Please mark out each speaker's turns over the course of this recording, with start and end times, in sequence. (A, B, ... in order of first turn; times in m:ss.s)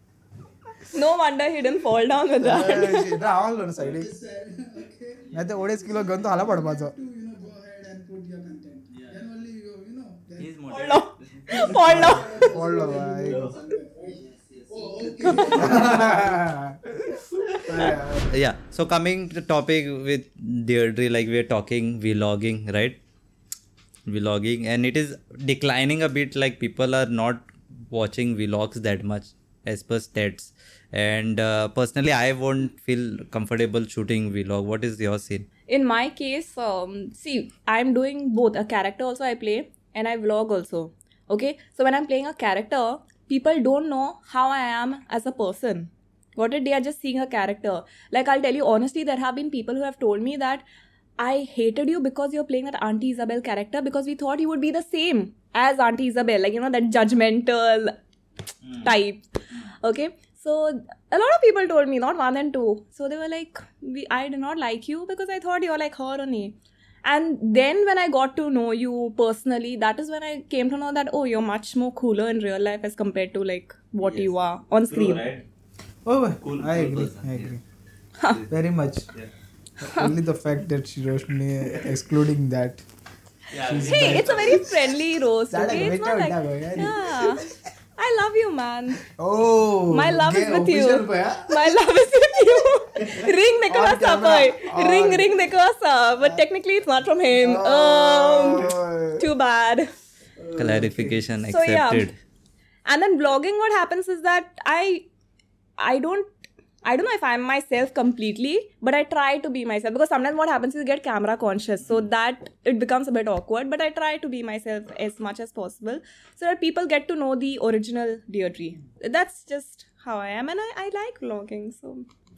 0:00.9-0:03.2 A
0:02.4-0:04.1 B
0:03.8-0:09.2 C
0:05.3-0:07.0 B
0:09.1-0:10.4 B
0:10.4-0:11.8 D
0:10.7-0:12.4 A
0:11.6-0:13.6 B
0:11.6-0:16.5 C
0:14.5-0:16.0 D
0:15.3-0:16.9 B
0:17.6-0:23.0 D
0:17.7-0:18.4 B
0:24.1-0:35.5 D
0:35.7-0:50.6 A
0:51.2-0:58.0 A
0:58.8-1:15.3 A
1:14.0-1:14.3 D
1:14.9-1:15.4 D
1:16.0-1:17.6 B
1:16.4-1:17.6 D
1:18.2-1:18.4 A
1:18.5-1:19.1 B
1:19.8-1:22.8 B
1:19.8-1:20.1 A
1:23.5-1:24.7 D
1:23.6-1:24.7 B
1:23.7-1:29.1 A
1:25.5-1:27.5 B
1:29.1-1:31.8 B
1:29.9-1:39.9 A
1:33.7-1:35.4 B
1:37.3-1:39.3 B
1:40.5-1:41.2 B
1:40.6-1:42.2 D
1:41.5-1:42.1 A
1:42.9-1:45.0 A
1:45.8-1:46.3 A
1:46.8-2:02.1 A